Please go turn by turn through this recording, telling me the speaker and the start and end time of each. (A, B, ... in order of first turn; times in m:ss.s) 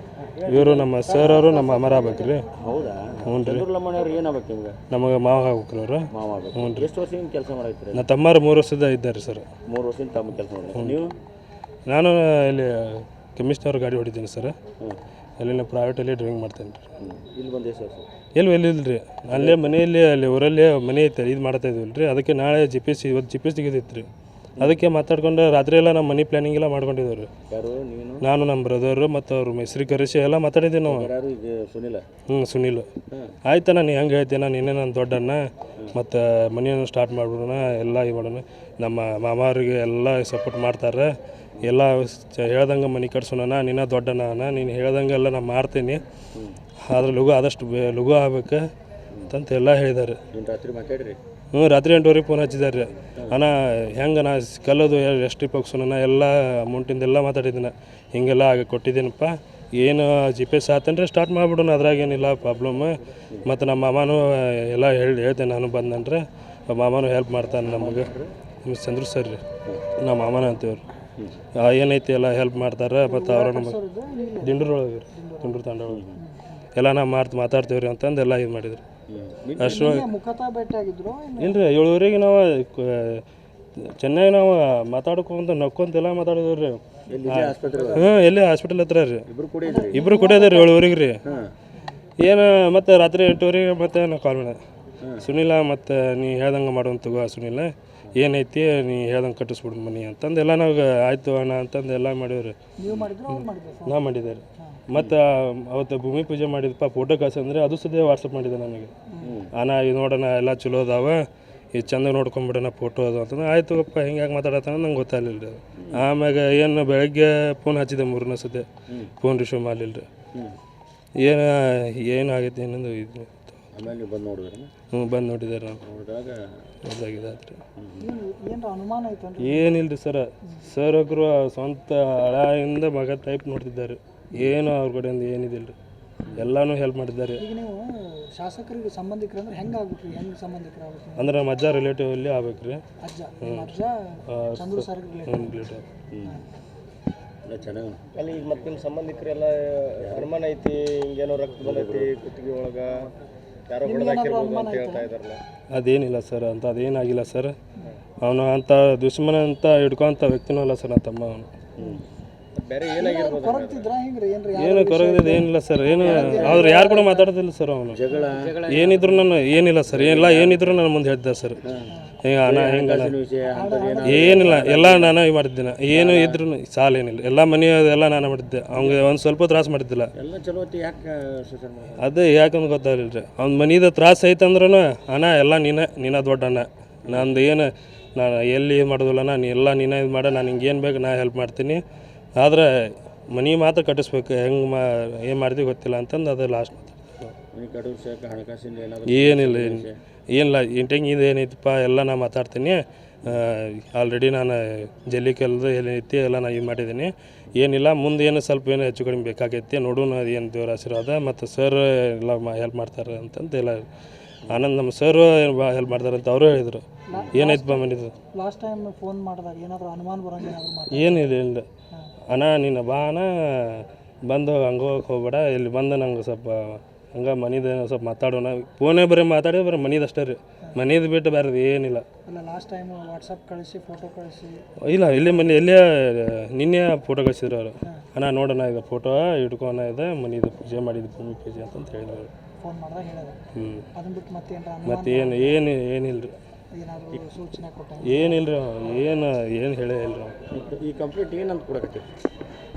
0:00.5-0:02.5 A
0:00.5-0:01.5 B
0:01.0-0:02.5 C
0:02.6-0:04.8 B
0:03.2-0:03.7 A
0:04.9-0:06.9 A
0:06.1-0:08.1 B
0:08.0-0:09.5 A
0:09.7-0:11.2 B
0:11.9-0:14.6 A
0:15.4-0:16.9 A
0:17.0-0:18.1 B
0:18.4-0:24.1 A
0:19.3-0:19.7 B
0:24.6-0:27.3 A
0:27.5-0:28.2 B
0:28.2-0:31.1 A
0:30.9-0:32.0 B
0:32.3-0:32.9 A
0:33.5-0:46.0 A
0:46.9-0:48.7 A
0:49.3-0:50.2 A
0:50.3-0:51.2 B
0:51.5-1:08.1 A
1:07.6-1:08.3 B
1:08.6-1:09.4 A
1:10.0-1:10.8 A
1:11.6-1:13.8 A
1:13.1-1:15.6 C
1:14.4-1:16.1 A
1:15.9-1:16.2 B
1:16.2-1:16.7 C
1:16.8-1:18.8 A
1:19.1-1:20.0 B
1:19.6-1:20.1 A
1:19.7-1:21.6 C
1:21.4-1:23.2 A
1:23.8-1:29.2 A
1:27.1-1:28.1 B
1:29.3-1:30.0 B
1:29.7-1:32.0 C
1:29.9-1:31.2 A
1:32.2-1:34.6 A
1:35.0-1:35.3 B
1:35.2-1:42.6 A
1:42.8-1:44.0 C
1:43.3-1:48.9 A
1:49.1-1:49.4 C
1:49.2-1:49.5 B
1:49.6-1:58.7 A
1:55.8-1:56.0 B
1:59.2-2:00.1 A
2:01.2-2:03.6 A
2:03.7-2:04.7 B
2:04.9-2:05.8 A
2:05.8-2:06.5 B
2:06.8-2:07.6 A
2:07.8-2:08.1 B
2:08.0-2:09.8 C
2:09.4-2:15.8 A
2:16.4-2:17.4 A
2:17.4-2:21.4 C
2:21.2-2:22.8 A
2:23.0-2:25.6 C
2:23.4-2:23.7 A
2:24.3-2:25.8 A
2:26.1-2:26.4 B
2:26.2-2:26.5 C
2:27.5-2:28.1 B
2:28.2-2:33.1 D
2:30.0-2:30.3 B
2:31.6-2:32.1 B
2:33.7-2:35.4 D
2:33.8-2:35.1 C
2:35.7-2:37.6 A
2:38.2-2:41.5 A
2:41.8-2:42.0 B
2:42.6-2:43.9 D
2:43.0-2:47.3 C
2:44.5-2:48.0 A
2:46.0-2:46.8 B
2:47.9-2:49.2 B
2:48.1-2:48.4 C
2:48.6-2:51.6 A
2:49.9-2:50.8 B
2:51.6-2:51.9 B
2:52.2-2:53.1 A
2:52.4-2:55.2 B
2:53.5-2:54.6 C
2:54.1-3:00.1 A
2:55.9-2:56.4 B
2:58.8-2:59.0 B
3:00.2-3:02.1 B
3:02.0-3:11.8 A
3:07.0-3:07.3 B
3:12.4-3:17.4 A
3:17.5-3:20.0 B
3:19.1-3:33.9 A
3:34.5-3:38.2 A
3:37.1-3:41.3 C
3:40.9-3:41.7 A
3:42.3-3:52.0 A
3:52.3-3:54.6 C
3:54.8-4:02.3 A
4:02.6-4:03.4 C
4:03.5-4:03.9 A
4:04.0-4:05.6 C
4:04.8-4:06.4 A
4:06.8-4:08.4 C
4:08.0-4:10.4 A
4:10.5-4:12.1 B